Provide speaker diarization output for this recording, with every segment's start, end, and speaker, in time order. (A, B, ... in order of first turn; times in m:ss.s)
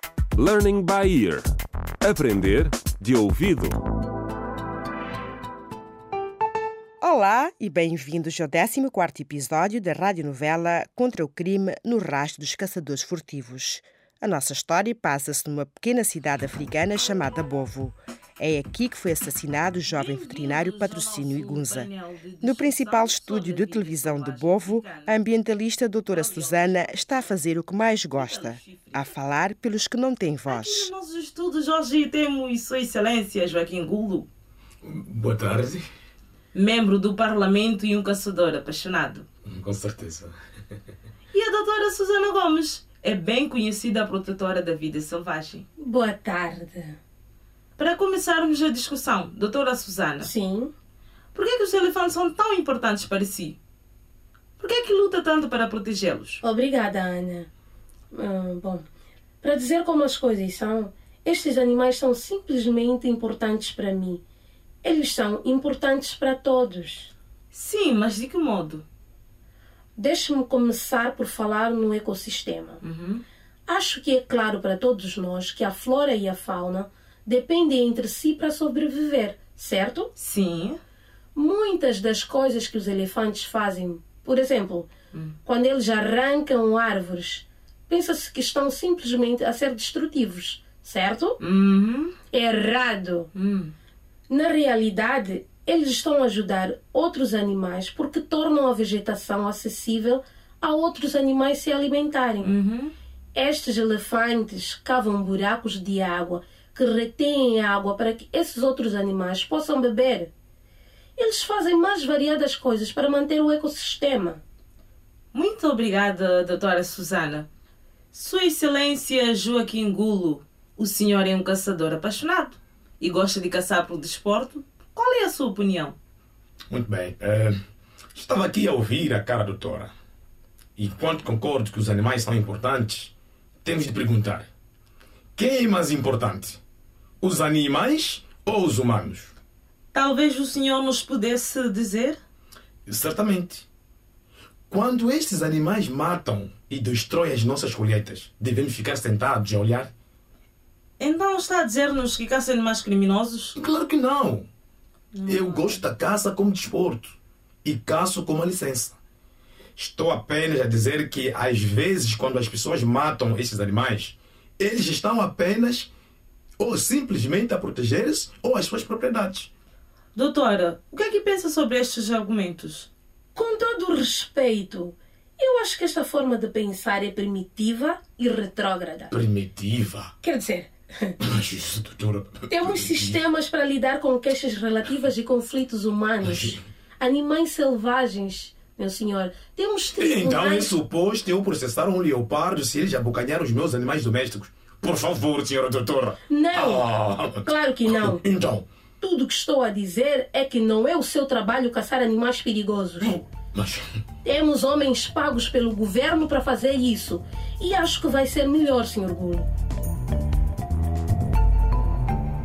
0:00.4-0:01.5 A
0:02.0-0:03.8 A
0:07.0-0:21.9 B
0:19.9-0:25.2 C
0:22.4-0:30.9 B
0:26.1-0:26.9 C
0:28.1-0:29.1 C
0:30.5-0:34.3 C
0:34.8-0:35.8 D
0:36.5-0:39.2 C
0:39.4-0:40.3 D
0:41.3-0:45.6 C
0:45.8-0:47.0 E
0:47.8-0:50.3 C
0:50.2-0:50.7 E
0:51.3-0:53.6 C
0:54.6-0:56.4 C
0:56.4-0:57.5 E
0:58.1-0:58.8 E
0:59.4-1:04.2 E
1:04.8-1:07.1 E
1:07.5-1:08.8 C
1:10.0-1:12.8 E
1:12.8-1:13.2 C
1:13.7-1:20.1 E
1:20.2-1:20.8 C
1:21.3-1:24.9 E
1:25.4-1:31.4 E
1:31.4-1:32.2 C
1:32.3-1:33.3 E
1:33.3-1:33.7 C
1:34.3-1:42.5 E
1:42.4-1:42.9 C
1:43.3-1:50.3 E
1:51.2-1:54.4 E
1:55.3-1:57.5 C
1:58.1-2:06.0 C
2:06.7-2:07.6 D
2:08.1-2:09.9 D
2:10.8-2:13.1 D
2:13.6-2:14.5 D
2:15.4-2:16.6 D
2:17.2-2:19.3 D
2:19.9-2:22.2 C
2:22.9-2:23.7 D
2:24.7-2:29.9 D
2:31.0-2:33.6 C
2:33.6-2:34.5 D
2:35.1-2:35.8 C
2:35.2-2:39.0 D
2:39.8-2:45.9 D
2:46.6-2:49.5 D
2:50.2-2:52.9 C
2:53.3-2:59.1 E
2:59.1-3:00.1 D
3:00.2-3:01.2 E
3:01.2-3:03.2 D
3:02.5-3:10.8 E
3:06.2-3:06.6 D
3:10.0-3:18.6 D
3:16.3-3:16.9 E
3:17.4-3:18.2 E
3:19.0-3:23.2 E
3:23.0-3:23.8 D
3:24.2-3:29.5 E